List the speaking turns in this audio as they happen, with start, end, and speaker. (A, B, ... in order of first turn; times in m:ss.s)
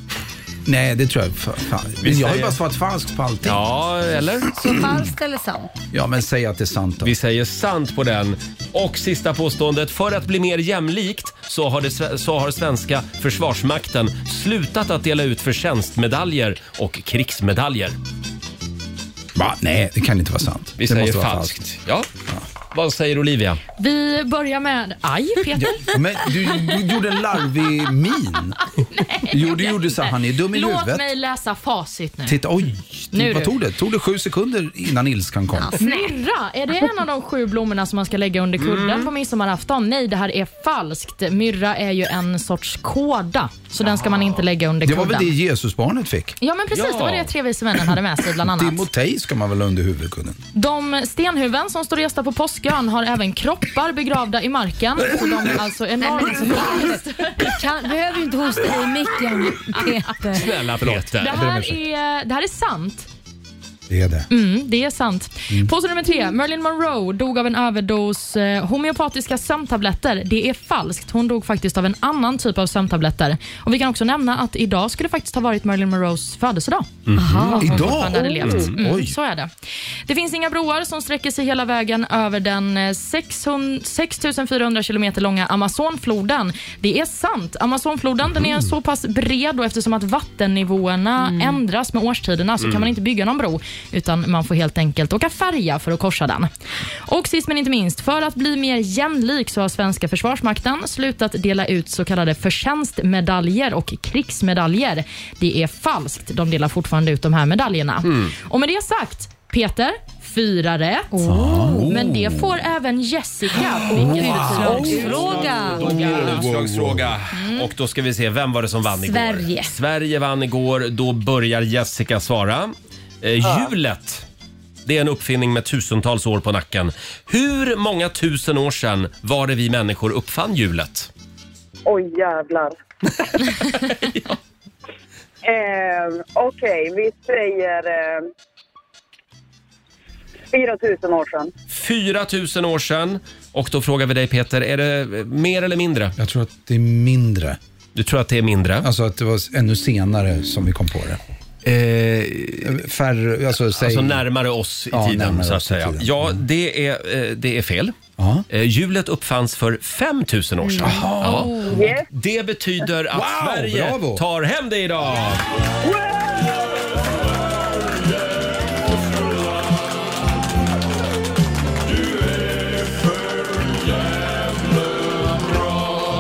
0:00.6-0:03.6 A
0:02.0-0:02.6 B
0:03.4-0:04.5 B
0:04.6-0:05.7 C
0:04.6-0:04.9 A
0:05.9-0:07.1 A
0:07.0-0:18.0 B
0:19.3-0:21.7 A
0:20.8-0:22.1 B
0:22.7-0:23.6 B
0:23.8-0:25.8 D
0:25.6-0:28.6 A
0:28.9-0:32.4 D
0:29.3-0:31.1 A
0:32.3-0:35.8 A
0:33.1-0:33.5 D
0:35.5-0:36.1 C
0:35.8-0:45.3 D
0:38.6-0:39.1 B
0:43.8-0:44.4 B
0:44.8-0:46.4 A
0:46.4-0:48.9 D
0:46.7-0:47.3 B
0:48.4-0:50.4 A
0:50.5-0:57.6 D
0:56.0-1:00.5 C
1:00.3-1:01.4 B
1:00.8-1:01.8 A
1:01.2-1:03.1 D
1:03.9-1:04.3 A
1:04.3-1:16.9 D
1:17.1-1:18.7 B
1:17.2-1:17.8 C
1:17.6-1:19.1 A
1:17.6-1:19.5 D
1:20.1-1:36.5 D
1:31.2-1:31.6 C
1:32.6-1:32.9 B
1:37.0-1:56.4 D
1:48.0-1:48.3 B
1:51.1-1:52.1 C
1:51.3-1:52.6 A
1:53.5-1:56.0 C
1:53.5-1:57.2 A
1:54.5-2:04.2 B
1:57.3-1:57.7 D
1:58.9-1:59.8 C
2:04.8-2:11.1 B
2:11.9-2:12.8 E
2:13.1-2:14.4 B
2:15.4-2:18.2 E
2:20.5-2:21.5 E
2:21.7-2:26.1 B
2:26.2-2:27.6 A
2:27.9-2:28.9 B
2:28.8-2:31.2 A
2:31.6-2:32.8 B
2:32.6-2:34.2 A
2:33.7-2:37.9 B
2:34.9-2:36.4 A
2:38.2-2:38.4 A
2:38.5-2:45.4 B
2:40.6-2:41.1 C
2:40.8-2:41.9 A
2:41.2-2:41.7 D
2:41.7-2:42.0 E
2:43.1-2:44.2 A
2:45.8-2:46.4 E